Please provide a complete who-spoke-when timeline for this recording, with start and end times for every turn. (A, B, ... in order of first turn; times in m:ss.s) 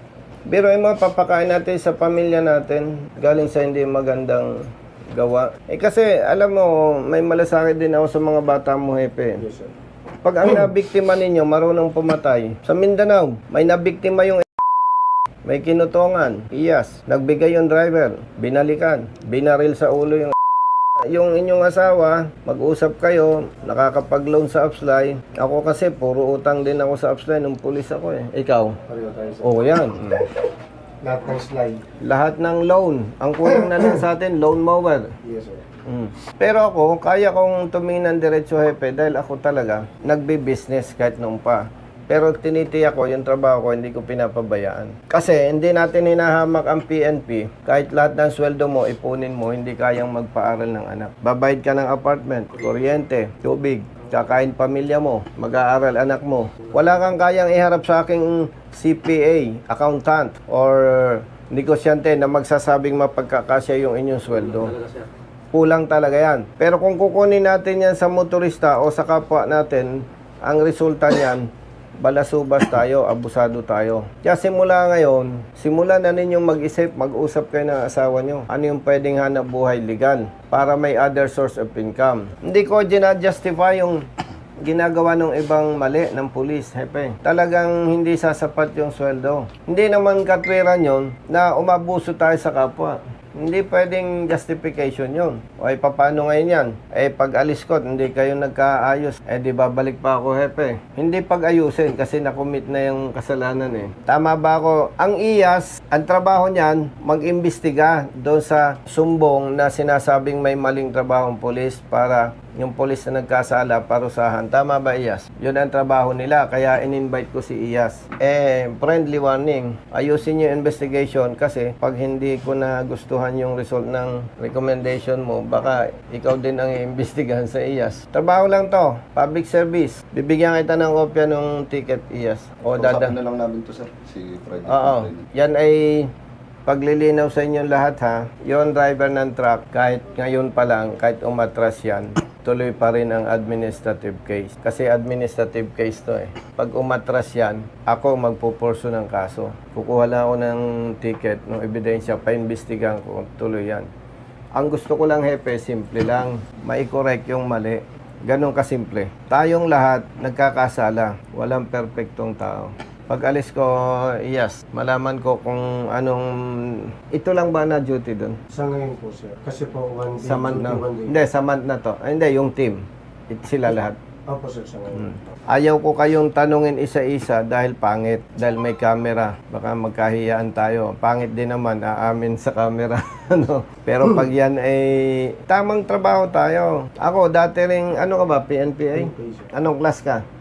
0:00.5-0:04.6 A
0:05.1-0:09.4 A
0:09.4-0:09.7 B
0:10.2-0:14.5 A
0:15.4-0:20.3 A
0:21.0-0:28.8 A
0:28.9-0:29.9 B
0:29.4-0:30.2 A
0:31.0-0:31.8 B
0:32.0-0:35.1 A
0:35.2-0:35.6 B
0:35.9-1:04.7 A
1:05.5-1:11.5 A
1:12.0-1:24.1 A
1:24.6-2:13.2 A
2:12.7-2:15.2 C
2:14.7-2:16.1 A
2:16.6-2:33.9 A
2:34.6-2:48.4 A
2:48.5-2:51.1 B
2:50.2-2:54.0 A
2:54.3-2:55.4 B
2:55.0-3:10.2 A
3:08.9-3:09.5 B